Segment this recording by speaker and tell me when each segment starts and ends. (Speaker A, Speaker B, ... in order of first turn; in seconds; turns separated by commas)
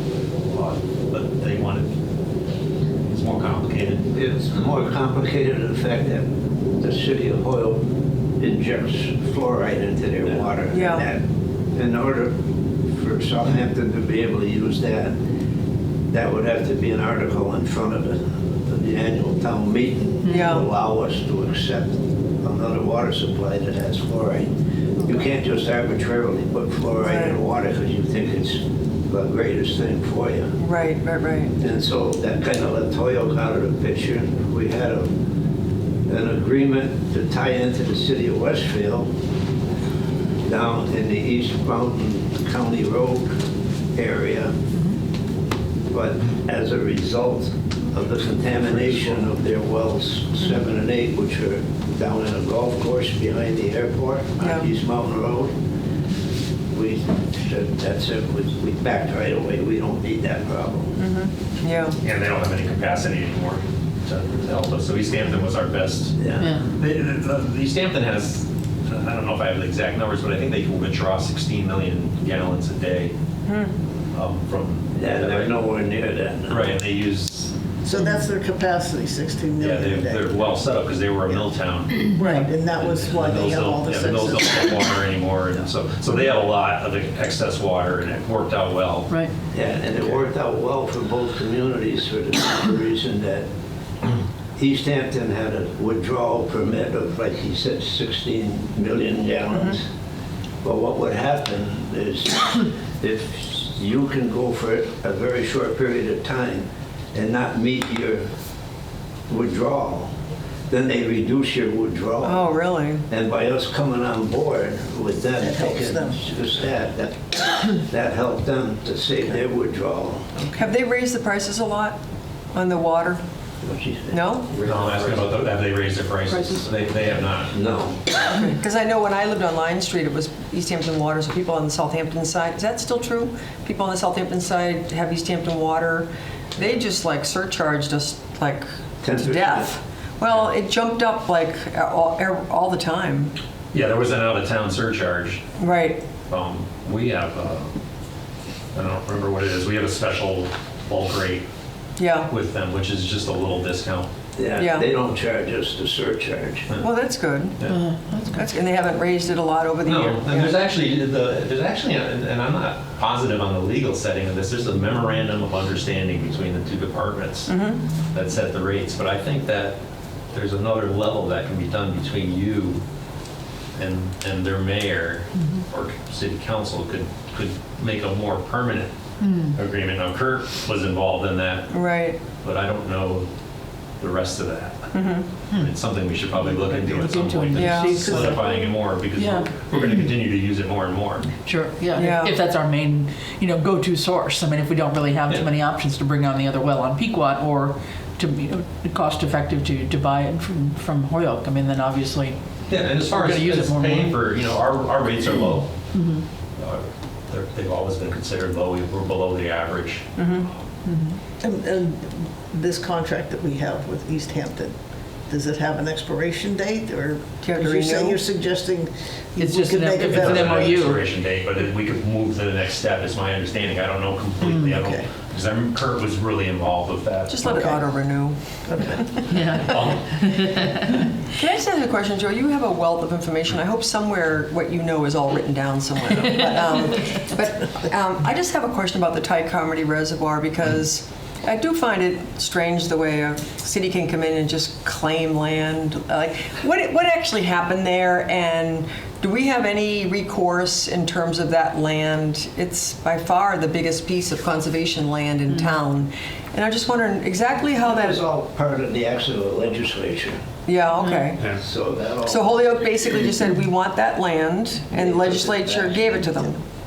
Speaker A: 0.4-1.9, Speaker A: 3.1-4.1, Speaker B: 4.1-6.2, Speaker B: 6.8-7.8, Speaker B: 8.4-11.2, Speaker C: 10.7-11.1, Speaker B: 11.7-12.3, Speaker B: 12.9-15.1, Speaker B: 16.1-30.5, Speaker D: 20.2-20.5, Speaker C: 20.3-20.6, Speaker C: 27.0-27.4, Speaker C: 30.6-31.5, Speaker B: 31.6-35.1, Speaker B: 36.1-39.1, Speaker B: 40.5-43.3, Speaker B: 44.0-44.5, Speaker B: 45.9-55.5, Speaker C: 54.4-54.7, Speaker B: 56.7-61.0, Speaker C: 61.0-62.0, Speaker A: 62.0-66.1, Speaker B: 66.2-66.5, Speaker D: 66.4-66.6, Speaker A: 66.8-73.1, Speaker C: 73.5-73.7, Speaker A: 74.1-75.6, Speaker B: 75.0-76.6, Speaker A: 76.5-77.5, Speaker E: 77.8-80.4, Speaker A: 79.6-89.1, Speaker E: 82.1-84.9, Speaker B: 89.5-93.5, Speaker B: 94.6-99.8, Speaker B: 100.6-108.2, Speaker B: 109.3-110.1, Speaker B: 110.7-120.5, Speaker C: 112.2-113.0, Speaker E: 115.4-116.2, Speaker C: 120.5-122.0, Speaker C: 122.5-123.2, Speaker B: 123.6-125.3, Speaker C: 124.1-124.5, Speaker A: 124.6-127.6, Speaker B: 127.5-128.2, Speaker C: 128.3-143.3, Speaker B: 139.0-139.7, Speaker A: 143.7-145.4, Speaker C: 145.6-146.0, Speaker A: 146.3-147.7, Speaker A: 148.7-151.4, Speaker C: 152.0-152.3, Speaker A: 152.3-154.1, Speaker B: 154.4-156.7, Speaker C: 154.5-154.8, Speaker C: 156.8-157.6, Speaker D: 157.7-158.5, Speaker C: 158.3-160.6, Speaker A: 159.8-167.5, Speaker C: 167.5-167.8, Speaker A: 168.1-169.8, Speaker A: 170.3-172.8, Speaker A: 173.7-178.9, Speaker D: 179.2-179.6, Speaker A: 179.5-181.7, Speaker C: 181.7-182.2, Speaker A: 182.4-183.3, Speaker A: 184.0-191.3, Speaker C: 184.9-185.3, Speaker D: 186.7-189.5, Speaker C: 187.5-188.1, Speaker D: 191.4-202.4, Speaker C: 191.9-192.3, Speaker A: 202.7-205.7, Speaker D: 202.9-204.2, Speaker D: 205.9-206.2, Speaker A: 206.6-210.1, Speaker C: 210.2-210.5, Speaker D: 210.8-211.2, Speaker E: 211.4-214.7, Speaker E: 215.3-220.9, Speaker C: 217.4-218.2, Speaker D: 219.4-221.0, Speaker A: 220.0-227.6, Speaker E: 224.4-225.1, Speaker C: 227.3-228.6, Speaker E: 227.4-227.8, Speaker E: 228.7-229.2, Speaker D: 229.3-231.0, Speaker A: 229.6-230.2, Speaker C: 231.3-258.2, Speaker B: 257.8-260.4, Speaker C: 260.6-261.4, Speaker D: 261.0-261.3, Speaker A: 261.4-261.6, Speaker B: 261.5-263.3, Speaker C: 262.2-266.6, Speaker B: 264.9-266.4